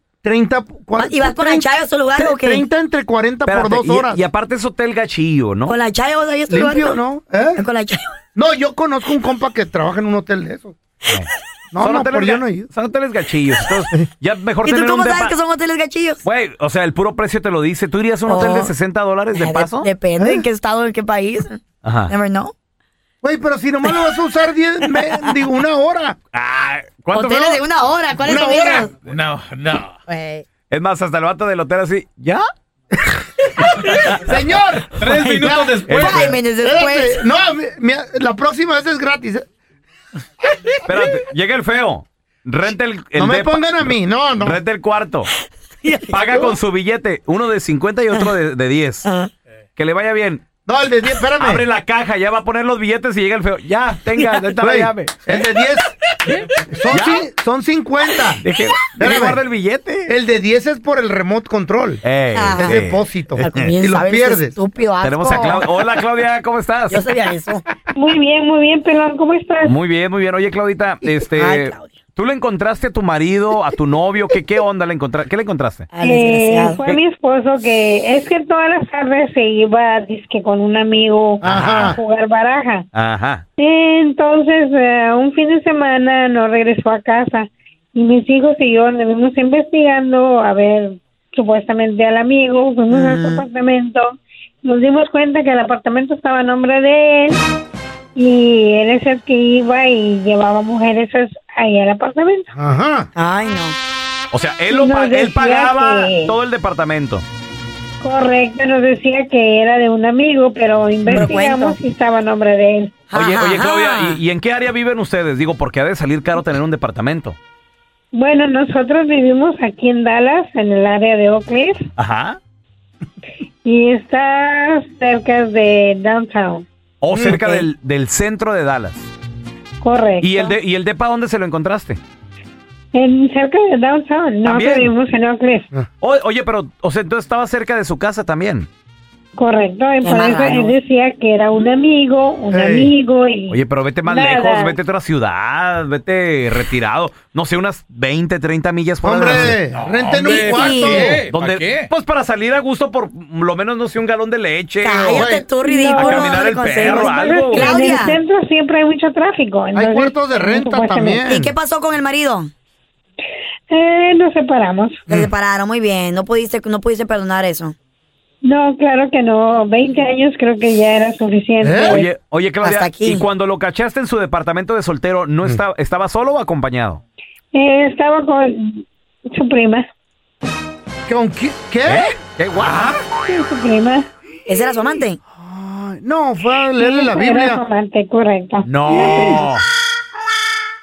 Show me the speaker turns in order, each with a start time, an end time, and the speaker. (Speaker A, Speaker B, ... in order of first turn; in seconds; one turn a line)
Speaker A: 0.2-4.2
Speaker B: 1.0-2.6
Speaker C: 3.5-5.8
Speaker B: 5.7-7.0
Speaker A: 6.5-7.6
Speaker B: 7.5-8.1
Speaker A: 8.3-10.7
Speaker A: 11.7-12.7
Speaker C: 11.8-15.4
Speaker B: 14.6-16.2
Speaker C: 16.2-19.9
Speaker B: 18.3-18.7
Speaker B: 19.3-22.5
Speaker A: 20.2-20.5
Speaker C: 21.8-22.1
Speaker A: 23.2-26.2
Speaker B: 24.9-25.4
Speaker C: 26.3-27.3
Speaker B: 27.1-28.9
Speaker A: 27.2-27.6
Speaker A: 28.2-28.9
Speaker D: 29.1-29.9
Speaker B: 30.1-30.4
Speaker C: 30.7-32.4
Speaker A: 34.1-39.5
Speaker D: 35.0-36.3
Speaker B: 35.1-37.2
Speaker C: 35.9-36.2
Speaker C: 40.9-45.3
Speaker A: 43.1-44.6
Speaker B: 45.8-46.1
Speaker C: 46.0-49.1
Speaker C: 49.8-50.4
Speaker A: 50.6-51.7
Speaker C: 51.4-55.3
Speaker A: 54.6-55.9
Speaker A: 56.7-58.4
Speaker C: 56.9-57.2
Speaker C: 58.4-60.1
Speaker A: 59.0-59.4
Speaker A: 60.1-62.0
Speaker C: 62.0-63.7
Speaker B: 62.3-62.8
Speaker A: 62.6-64.5
Speaker B: 63.4-66.0
Speaker C: 65.0-67.0
Speaker B: 66.9-67.6
Speaker E: 67.9-69.8
Speaker C: 69.6-75.9
Speaker B: 71.3-71.8
Speaker B: 75.9-76.8
Speaker E: 76.0-82.9
Speaker A: 81.4-82.0
Speaker C: 81.5-82.0
Speaker C: 82.9-83.4
Speaker E: 83.6-97.4
Speaker B: 92.9-93.4
Speaker E: 98.2-102.5
Speaker A: 102.5-103.1
Speaker B: 103.2-103.8
Speaker C: 104.3-107.2
Speaker E: 104.7-106.3
Speaker E: 108.0-113.0
Speaker B: 111.1-111.8
Speaker B: 113.1-114.2
Speaker C: 113.1-117.4
Speaker E: 118.1-121.9
Speaker C: 122.0-122.4
Speaker E: 123.6-126.6
Speaker C: 127.0-129.1
Speaker A: 127.1-127.4
Speaker B: 127.3-127.7
Speaker E: 129.8-130.6
Speaker C: 130.2-132.0
Speaker E: 132.9-135.7
Speaker C: 134.4-134.9
Speaker C: 136.0-138.7
Speaker E: 139.4-144.8
Speaker B: 140.0-140.8
Speaker A: 142.5-142.9
Speaker C: 143.5-149.6
Speaker A: 149.0-151.2
Speaker D: 149.7-151.9
Speaker B: 150.2-151.2
Speaker C: 151.3-155.3
Speaker B: 154.8-158.2
Speaker A: 155.1-155.5
Speaker E: 155.6-161.2
Speaker C: 156.0-157.7
Speaker A: 159.7-161.5
Speaker B: 161.2-162.5
Speaker E: 163.7-165.0
Speaker B: 165.1-167.7
Speaker E: 168.4-172.1
Speaker A: 171.6-172.0
Speaker C: 171.8-177.0
Speaker B: 172.6-173.3
Speaker E: 177.5-179.8
Speaker A: 181.1-182.1
Speaker C: 181.8-183.0
Speaker E: 183.2-184.1
Speaker B: 184.5-185.2
Speaker A: 185.3-187.6
Speaker E: 186.8-189.4
Speaker C: 188.6-189.6
Speaker A: 188.9-189.4